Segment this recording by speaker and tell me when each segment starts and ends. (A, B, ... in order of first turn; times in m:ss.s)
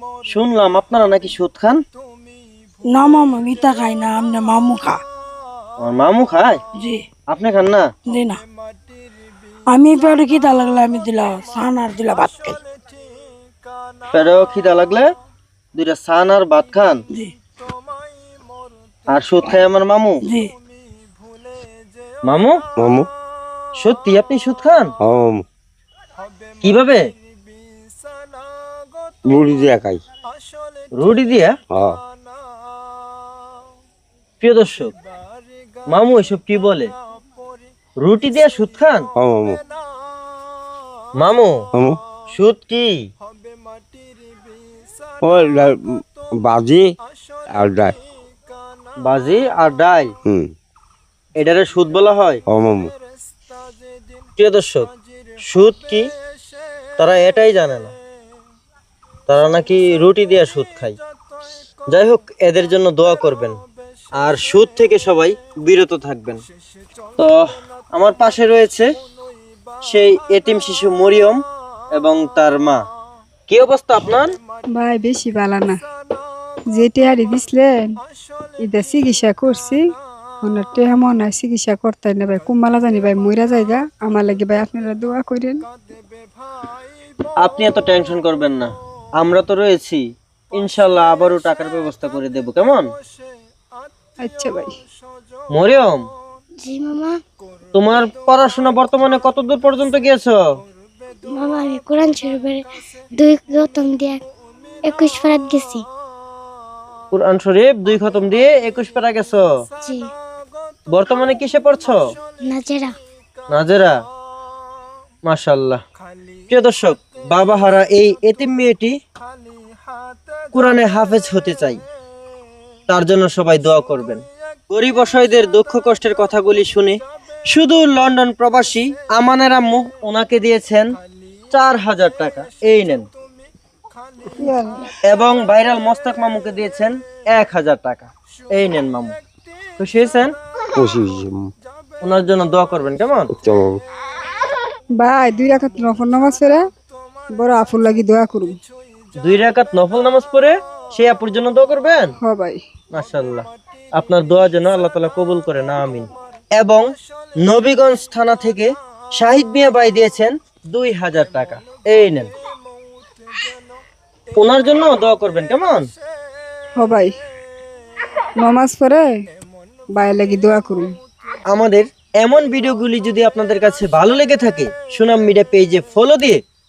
0:00.3-0:01.8 A
0:02.9-0:05.0 B
0:05.8-0:06.6 A
0:07.3-0:07.8 A
0:08.1-0:08.4 B
0:09.7-0:12.6 B
0:14.1-0:15.1 A
0:15.8-0:17.0 A
0:19.1-0:20.2 A
0:22.3-0:22.5 A
0:22.8-0:23.1 C
0:23.8-0:24.9 A
0:25.0-0:25.4 C
0:26.6-0:27.0 A
0:29.3-0:30.0 C
0:31.0-0:31.5 A
0:31.7-0:32.0 C
0:34.4-0:34.9 A
0:35.9-0:36.9 A
0:38.0-0:39.0 A
0:39.2-0:39.6 C
0:41.2-0:41.5 A
0:41.7-0:42.0 C
0:42.3-0:42.9 A
0:45.2-0:46.9 C
0:47.5-0:48.0 C
0:49.0-0:50.1 A
0:51.4-0:52.4 A
0:52.5-0:52.9 C
0:54.4-0:54.9 A
0:55.5-0:56.0 A
0:57.0-0:57.9 A
0:59.3-1:01.0 A
1:01.9-1:03.6 A
1:04.2-1:06.4 A
1:07.9-1:08.9 A
1:09.9-1:11.4 A
1:11.9-1:12.8 A
1:13.5-1:14.3 A
1:14.8-1:15.8 D
1:16.7-1:17.8 D
1:18.6-1:19.8 D
1:20.4-1:25.6 D
1:27.4-1:30.0 A
1:30.6-1:32.9 A
1:34.2-1:34.7 D
1:35.5-1:36.0 A
1:36.6-1:37.2 E
1:37.7-1:40.4 A
1:41.3-1:42.6 E
1:43.2-1:44.2 E
1:44.9-1:45.8 E
1:47.1-1:49.4 A
1:50.9-1:52.0 A
1:52.4-1:52.9 E
1:53.5-1:53.9 A
1:55.3-1:55.8 A
1:56.5-1:58.9 A
2:00.5-2:01.8 A
2:02.9-2:07.0 A
2:07.5-2:10.9 A
2:11.5-2:13.1 A
2:14.4-2:14.8 D
2:15.1-2:19.2 A
2:19.8-2:20.3 A
2:20.8-2:21.5 C
2:22.0-2:23.3 A
2:23.4-2:23.8 C
2:25.0-2:26.6 D
2:27.3-2:28.5 D
2:29.2-2:32.1 A
2:32.2-2:32.6 D
2:32.9-2:33.4 A
2:34.0-2:36.8 A
2:37.4-2:42.3 A
2:44.4-2:45.8 A
2:46.8-2:47.1 D
2:48.4-2:49.0 D
2:50.0-2:50.9 D
2:51.5-2:56.4 A